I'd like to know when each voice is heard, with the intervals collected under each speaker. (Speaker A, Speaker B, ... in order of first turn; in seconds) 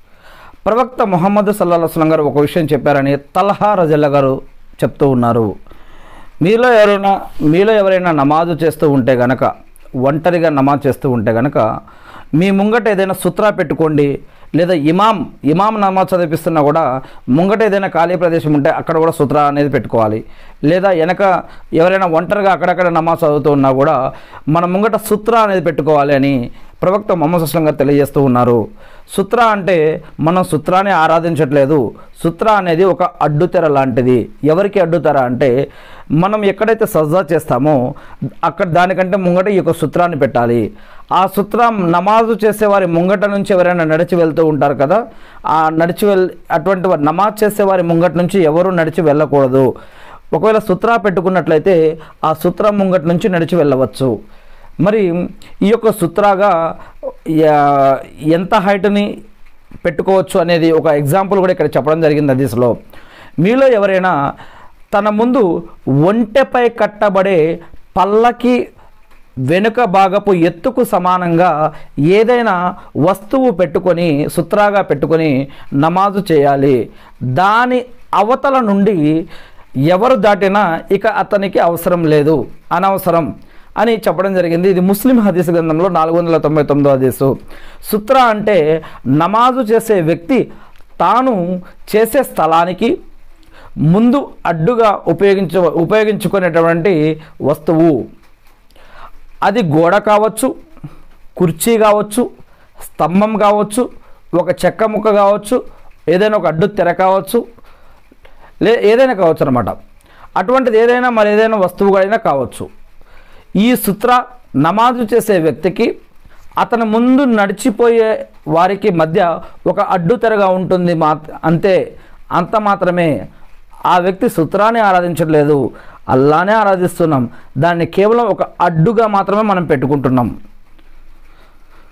Speaker A: 0.6-5.5, 6.4-9.5, 10.0-11.6, 12.4-16.8, 17.4-23.9, 24.5-28.6, 29.1-35.5, 36.2-37.8, 38.4-40.6, 41.2-45.0, 45.5-49.7, 50.3-54.1, 54.8-55.1, 55.7-56.5, 57.4-59.1, 59.8-62.7, 63.4-64.1, 64.9-65.5, 66.0-67.4, 68.0-68.6, 69.5-71.5, 72.1-76.8, 77.3-79.0, 79.9-83.3, 83.8-87.3, 87.9-88.6, 89.2-90.4, 91.0-91.4, 91.9-92.9, 93.9-97.0, 97.5-98.0, 99.5-100.5, 101.4-102.2, 102.8-103.8, 104.4-105.6, 106.1-107.4, 108.6-109.7, 110.4-112.7, 113.6-115.9, 116.6-121.8, 122.4-123.1, 123.9-125.6, 126.1-130.3